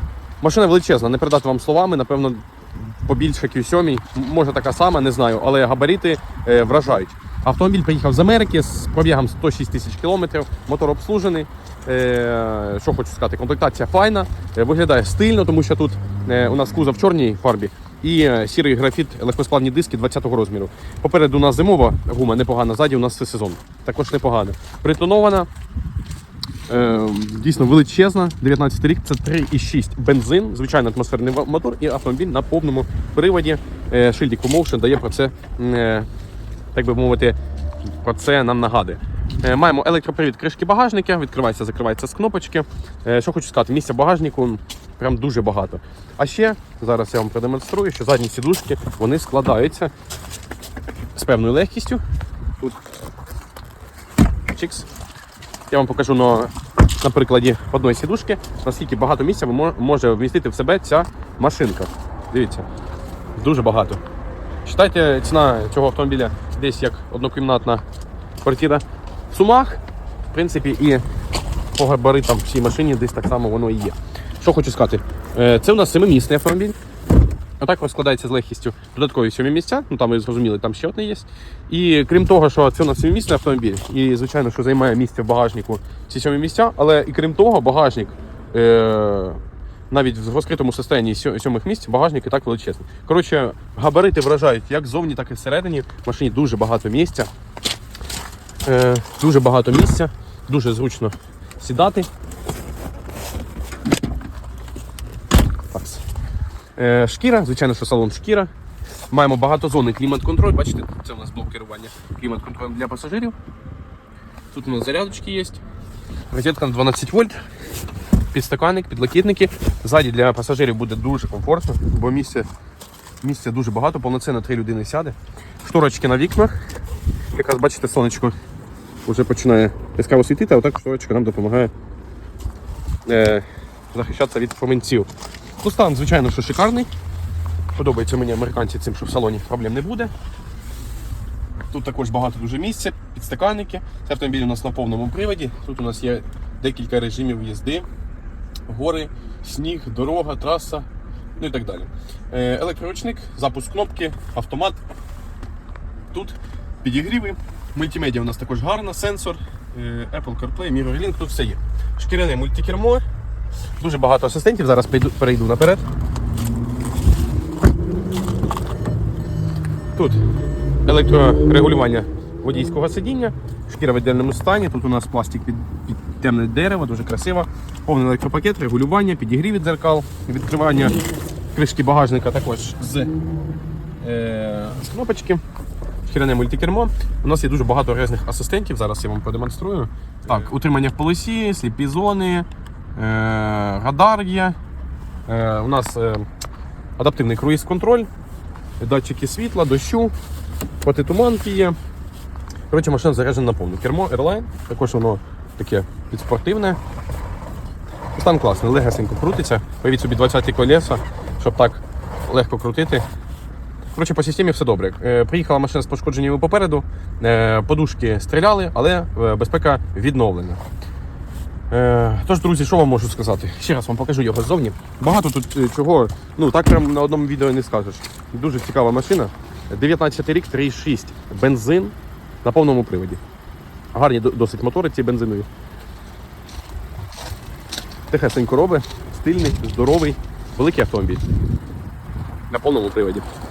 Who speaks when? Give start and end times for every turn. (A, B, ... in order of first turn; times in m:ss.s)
0:00.4-0:25.5 A
0:26.7-0:36.1 A
0:36.7-0:49.9 A
0:51.2-0:52.0 A
0:54.5-0:54.9 A
0:55.7-1:02.7 A
1:03.4-1:04.0 A
1:04.6-1:07.8 A
1:08.4-1:11.0 A
1:11.8-1:16.8 A
1:17.6-1:37.3 A
1:38.6-1:42.1 A
1:45.7-1:46.0 A
1:46.8-1:48.5 A
1:49.1-1:53.4 A
1:54.5-1:55.6 A
1:56.3-1:57.4 A
1:58.3-2:02.5 A
2:03.2-2:06.6 A
2:07.3-2:08.4 A
2:09.1-2:11.7 A
2:13.1-2:15.1 A
2:15.6-2:16.9 A
2:17.8-2:20.1 A
2:21.7-2:27.9 A
2:28.7-2:30.9 A
2:31.4-2:34.8 A
2:36.1-2:43.0 A
2:43.8-2:45.8 A
2:50.0-2:50.2 A
2:50.8-3:01.0 A
3:01.5-3:03.1 A
3:04.0-3:05.4 A
3:06.1-3:14.6 A
3:15.3-3:16.3 A
3:17.0-3:18.1 A
3:18.8-3:20.1 A
3:20.8-3:21.8 A
3:22.7-3:26.8 A
3:28.2-3:33.0 A
3:34.0-3:40.6 A
3:41.7-3:53.2 A
3:53.9-3:55.5 A
3:58.1-4:01.2 A
4:02.5-4:03.2 A